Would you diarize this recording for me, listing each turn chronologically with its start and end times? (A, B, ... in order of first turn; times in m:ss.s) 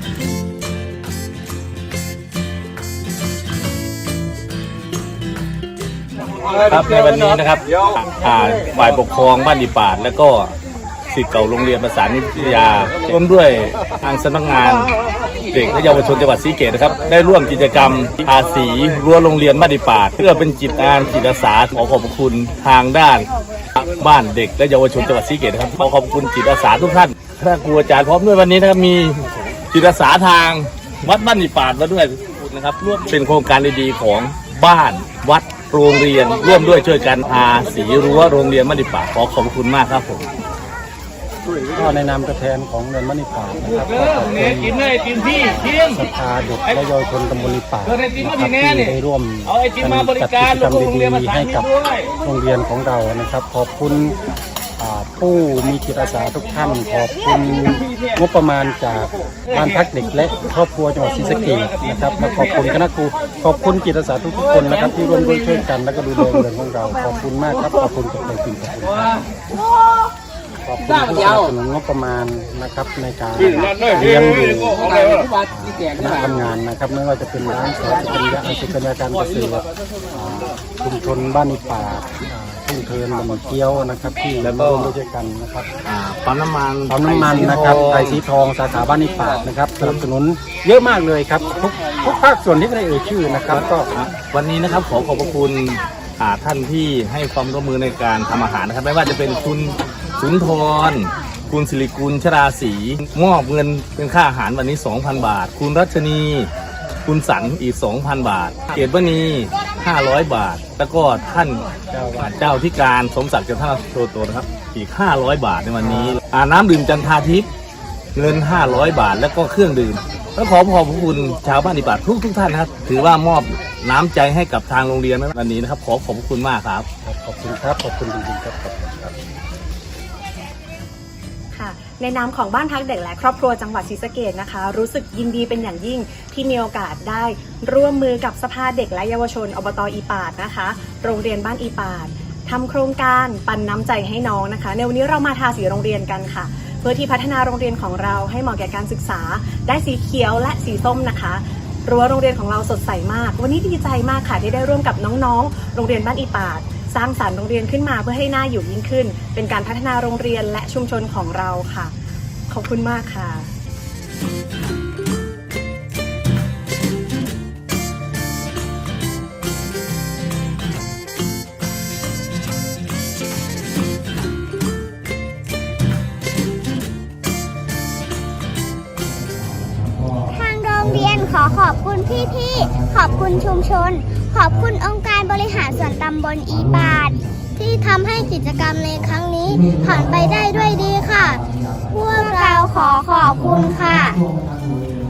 0:06.6-0:10.5 A
0:11.1-0:14.9 A
0:15.5-0:40.3 A
0:41.7-0:54.2 B
0:54.8-1:09.2 B
1:10.7-1:14.9 B
1:15.4-1:25.7 B
1:24.4-1:24.9 A
1:25.8-1:28.2 A
1:26.9-1:33.9 B
1:33.9-1:46.5 A
1:47.0-1:51.7 A
1:51.9-1:52.4 B
1:52.2-1:57.5 A
1:55.8-1:56.2 B
1:58.2-2:06.9 A
2:07.0-2:09.1 B
2:11.5-2:42.0 C
2:42.5-2:43.5 C
3:00.3-3:14.2 D